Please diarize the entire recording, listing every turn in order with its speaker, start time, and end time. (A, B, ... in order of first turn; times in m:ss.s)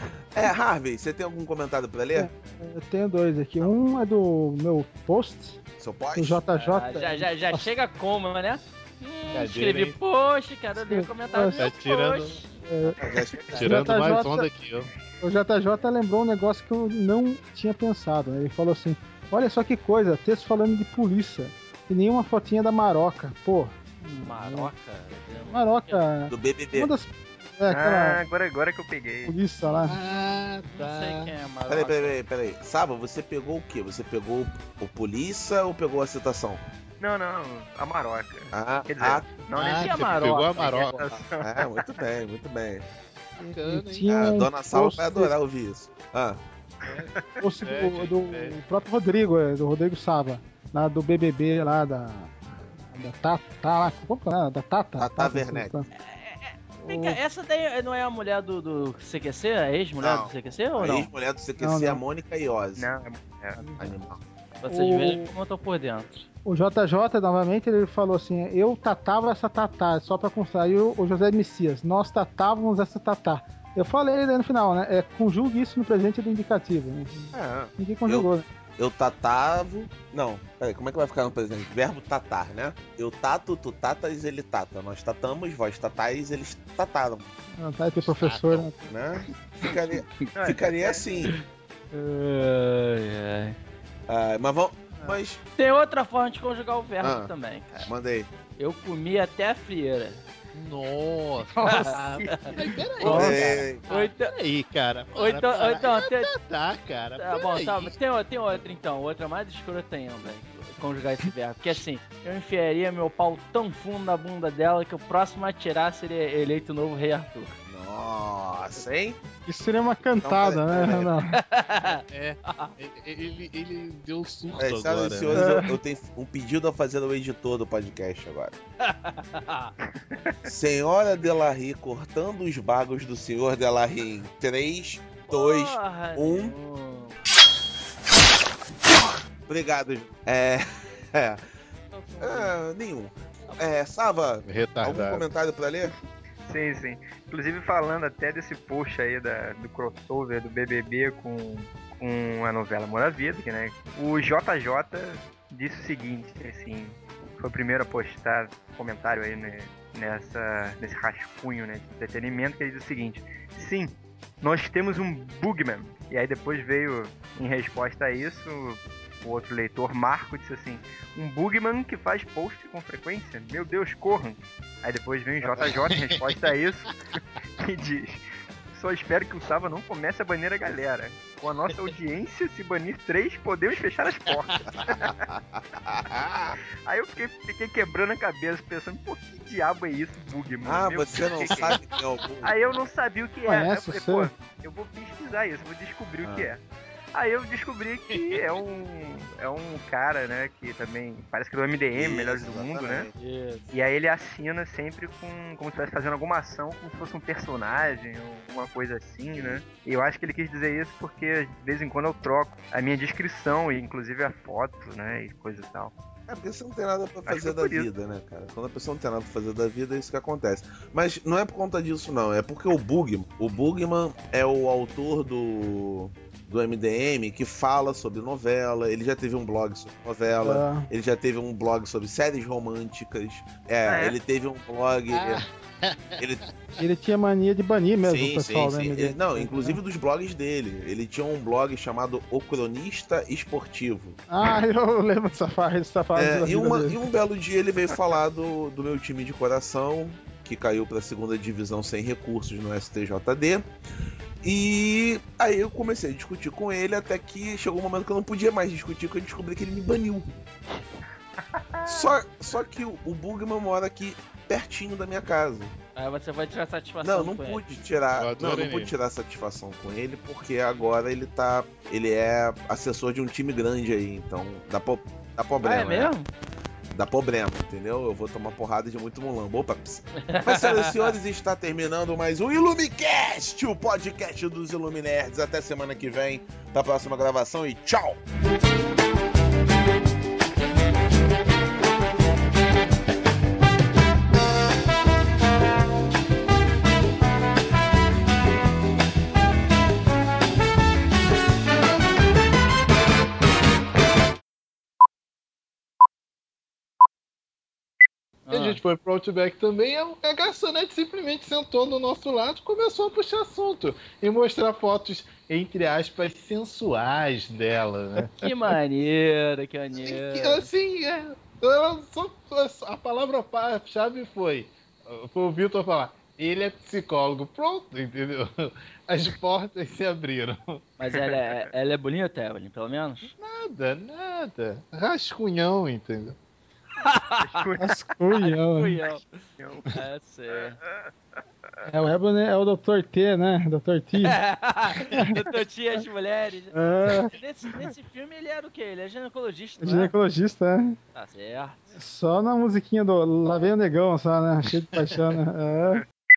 0:00.3-0:02.3 A
0:02.2-0:05.6 B
0:05.8-0:06.4 A
0:06.2-0:07.7 B
0:06.5-0:13.0 C
0:09.3-0:10.0 D
0:10.8-0:11.7 B
0:11.6-0:12.4 D
0:12.7-0:13.0 B
0:13.0-0:13.6 A
0:13.5-0:13.9 C
0:13.6-0:14.9 D
0:13.6-0:14.5 B
0:15.2-0:24.7 B
0:24.2-0:26.1 C
0:25.5-0:28.2 B
0:26.3-0:26.9 A
0:27.7-0:29.4 E
0:29.3-0:30.0 B
0:29.7-0:31.3 D
0:30.8-0:32.2 C
0:31.7-0:36.6 A
0:37.0-0:41.7 E
0:38.5-0:39.3 A
0:39.5-0:41.0 D
0:39.8-0:41.0 C
0:41.4-0:42.8 A
0:43.4-0:45.4 B
0:43.4-0:44.2 D
0:44.1-0:46.4 A
0:46.8-0:47.1 D
0:47.4-0:52.3 B
0:47.6-0:48.6 D
0:52.9-0:55.9 B
0:55.0-0:55.8 A
0:56.0-1:01.1 C
0:56.9-0:57.2 B
1:00.0-1:02.9 A
1:01.6-1:02.0 B
1:02.8-1:03.6 E
1:03.6-1:03.9 B
1:03.8-1:04.2 A
1:04.6-1:06.3 C
1:04.7-1:05.3 B
1:06.4-1:18.4 B
1:17.3-1:27.3 A
1:27.6-1:28.9 B
1:28.0-1:28.7 D
1:28.9-1:31.3 A
1:30.4-1:31.0 E
1:31.9-1:33.6 C
1:34.1-1:35.4 A
1:35.6-1:37.9 C
1:37.0-1:37.3 A
1:37.9-1:38.3 A
1:38.6-1:40.2 C
1:40.5-1:48.0 D
1:41.6-1:42.5 B
1:41.6-1:44.3 C
1:43.0-1:43.8 A
1:45.1-1:46.3 C
1:47.2-1:57.5 C
1:57.7-1:59.2 A
1:59.5-2:01.4 B
2:00.2-2:01.1 A
2:01.4-2:02.7 C
2:02.1-2:05.6 D
2:04.6-2:08.6 A
2:05.3-2:05.7 B
2:08.8-2:09.7 C
2:10.5-2:16.5 A
2:15.3-2:17.2 C
2:19.5-2:21.4 A
2:21.9-2:22.6 C
2:22.2-2:25.9 A
2:24.4-2:25.2 D
2:26.4-2:58.2 E
2:55.6-2:56.3 D
2:58.7-3:05.2 E
3:04.7-3:06.6 A
3:06.8-3:11.8 E
3:10.6-3:12.5 A
3:12.4-3:16.6 E
3:13.4-3:14.3 B
3:16.2-3:16.5 A
3:17.1-3:23.1 E
3:18.1-3:18.4 D
3:22.0-3:23.1 A
3:23.2-3:23.7 C
3:23.7-3:35.9 E
3:29.3-3:29.6 A
3:36.3-3:55.4 A
3:37.3-3:37.9 E
3:50.4-3:50.9 B
3:53.9-3:54.2 E
3:55.1-3:56.2 D
3:56.2-3:56.4 A
3:56.8-3:59.8 B
3:58.0-4:04.2 A
4:04.3-4:07.0 B
4:06.2-4:13.6 A
4:14.4-4:20.3 A
4:21.8-4:22.1 E
4:21.9-4:25.8 A
4:26.0-4:27.8 C
4:27.0-4:36.1 A
4:28.2-4:28.9 D
4:35.6-4:36.3 C
4:36.9-4:48.2 A
4:40.3-4:41.1 C
5:08.5-5:08.8 C
5:08.5-5:18.5 D
5:18.4-5:20.7 C
5:20.0-5:30.8 D
5:31.0-5:33.3 C
5:33.3-5:36.4 D
5:37.0-5:37.7 C
5:37.4-5:38.0 E
5:37.8-5:39.0 B
5:38.4-5:39.4 C
5:39.6-5:39.9 E
5:39.9-5:40.8 C
5:41.8-5:44.4 B
5:44.2-5:50.1 C
5:46.7-5:47.3 B
5:49.8-5:51.0 B
5:51.2-5:51.8 C
5:52.0-5:56.0 B